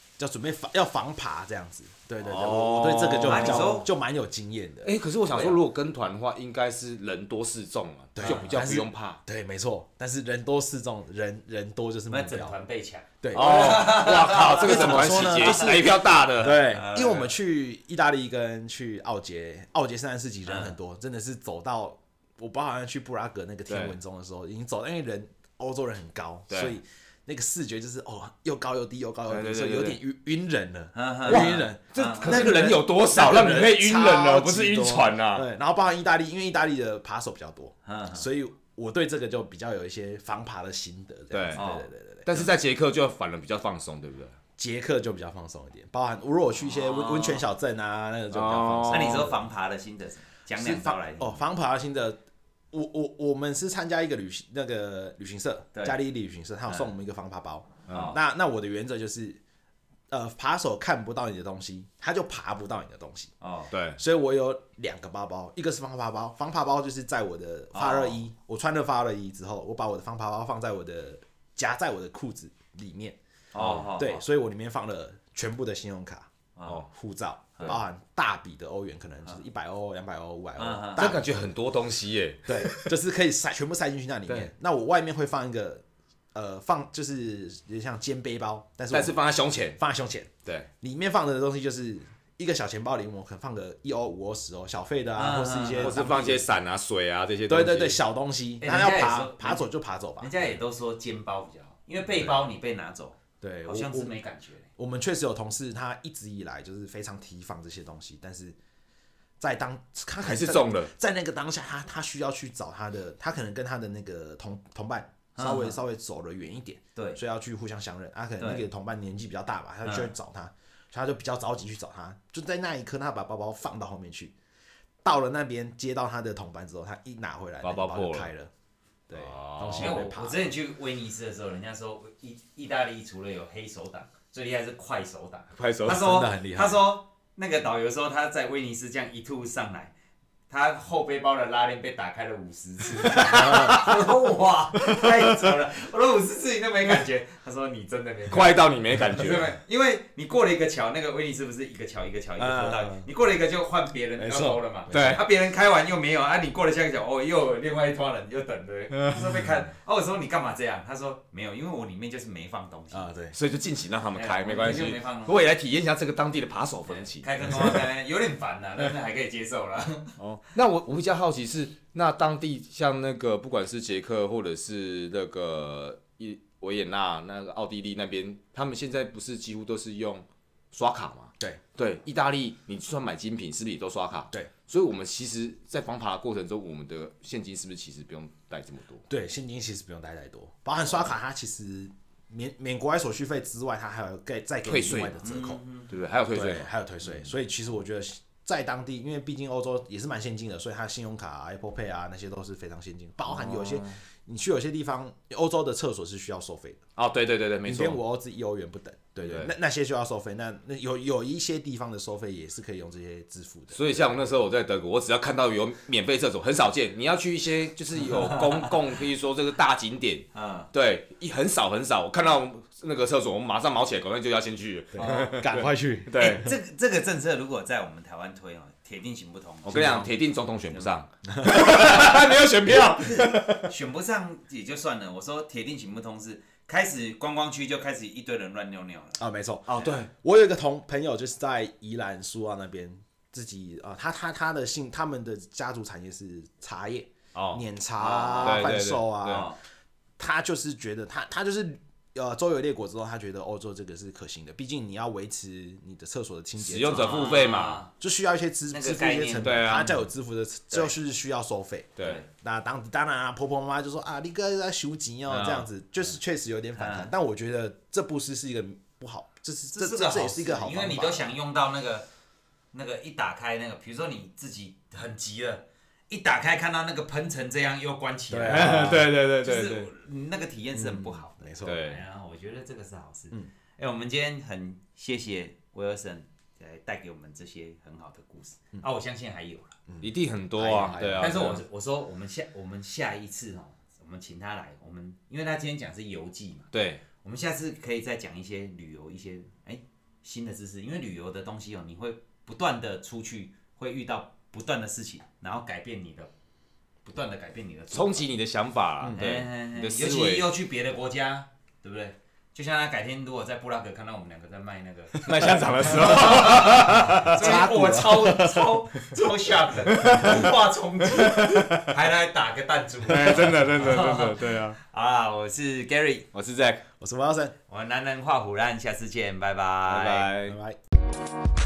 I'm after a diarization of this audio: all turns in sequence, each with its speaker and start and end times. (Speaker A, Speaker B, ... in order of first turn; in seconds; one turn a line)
Speaker A: 0.2-5.6
Speaker B: 2.2-3.8
Speaker C: 3.2-3.9
Speaker B: 4.8-9.2
Speaker A: 8.2-12.6
Speaker C: 8.2-8.9
Speaker C: 12.1-16.0
Speaker A: 13.2-42.5
Speaker B: 13.3-16.7
Speaker C: 16.7-17.4
Speaker C: 20.5-20.7
Speaker B: 23.7-24.0
Speaker B: 26.5-26.8
Speaker B: 29.3-30.0
Speaker C: 30.9-32.5
Speaker B: 31.3-35.5
Speaker C: 37.9-38.2
Speaker B: 41.3-41.6
Speaker C: 41.5-41.9
Speaker B: 42.2-44.4
Speaker A: 44.6-49.4
Speaker C: 46.6-47.5
Speaker B: 48.3-49.4
Speaker C: 48.9-51.4
Speaker A: 50.6-52.2
Speaker A: 52.7-59.4
Speaker B: 57.9-58.2
Speaker C: 57.9-58.2
Speaker A: 60.1-63.3
Speaker C: 63.4-63.7
Speaker B: 63.7-64.0
Speaker A: 64.0-73.2
Speaker C: 67.7-68.2
Speaker C: 73.5-74.2
Speaker B: 73.6-73.9
Speaker A: 73.9-76.3
Speaker C: 76.6-76.9
Speaker A: 76.9-81.5
Speaker C: 80.6-81.1
Speaker B: 81.0-83.0
Speaker A: 82.5-89.2
Speaker B: 88.9-89.8
Speaker A: 89.8-96.5
Speaker C: 95.2-96.0
Speaker B: 95.8-98.0
Speaker A: 97.5-100.3
Speaker C: 98.6-99.7
Speaker C: 100.2-104.7
Speaker A: 103.4-104.1
Speaker A: 104.8-108.6
Speaker A: 109.4-124.3
Speaker B: 110.2-110.9
Speaker C: 115.4-115.8
Speaker C: 118.4-118.7
Speaker A: 125.0-128.5
Speaker B: 127.6-128.3
Speaker A: 129.1-130.6
Speaker B: 129.1-130.1
Speaker C: 129.8-139.9
Speaker B: 135.6-136.2
Speaker A: 135.9-136.9
Speaker C: 140.5-163.1
Speaker B: 143.1-144.1
Speaker A: 143.2-144.0
Speaker B: 148.3-149.5
Speaker A: 152.4-153.1
Speaker A: 154.2-155.2
Speaker B: 154.9-155.2
Speaker A: 162.9-163.4
Speaker B: 163.3-167.8
Speaker C: 164.2-165.3
Speaker C: 166.9-170.2
Speaker B: 170.2-189.1
Speaker A: 189.1-195.6
Speaker B: 194.7-195.2
Speaker C: 195.2-195.9
Speaker B: 195.9-197.3
Speaker A: 196.3-206.8
Speaker B: 203.3-204.0
Speaker B: 207.0-208.0
Speaker A: 207.6-214.1
Speaker B: 209.2-209.5
Speaker B: 213.7-226.5
Speaker C: 218.1-218.7
Speaker C: 220.3-220.7
Speaker A: 224.9-226.5
Speaker C: 225.0-225.4
Speaker C: 226.2-230.1
Speaker B: 229.7-233.7
Speaker A: 229.7-230.1
Speaker C: 230.7-231.0
Speaker A: 231.3-231.8
Speaker C: 232.9-239.2
Speaker A: 239.2-249.5
Speaker B: 239.7-240.1
Speaker C: 239.7-240.0
Speaker B: 247.3-247.6
Speaker C: 248.0-248.7
Speaker B: 248.4-249.5
Speaker C: 249.3-249.6
Speaker A: 250.2-257.4
Speaker B: 256.6-257.8
Speaker C: 256.9-257.9
Speaker A: 258.0-271.3
Speaker C: 258.7-259.8
Speaker B: 259.4-260.0
Speaker C: 260.7-261.0
Speaker B: 262.0-262.2
Speaker C: 262.0-262.3
Speaker B: 265.3-265.7
Speaker C: 266.8-267.1
Speaker C: 269.7-272.1
Speaker C: 272.7-289.8
Speaker A: 278.3-279.1
Speaker B: 278.5-279.9
Speaker A: 280.7-281.8
Speaker B: 281.6-282.0
Speaker A: 289.9-291.6
Speaker B: 290.0-291.6
Speaker C: 291.2-306.3
Speaker B: 296.7-297.0
Speaker C: 307.1-308.3
Speaker B: 307.9-310.5
Speaker C: 309.1-326.3
Speaker B: 315.2-317.6
Speaker A: 316.5-318.6
Speaker B: 319.9-320.5
Speaker B: 321.1-321.9
Speaker B: 323.1-324.8
Speaker A: 323.3-323.6
Speaker B: 326.3-326.9
Speaker A: 327.0-327.6
Speaker C: 327.7-330.3
Speaker B: 329.9-330.6
Speaker A: 330.4-330.8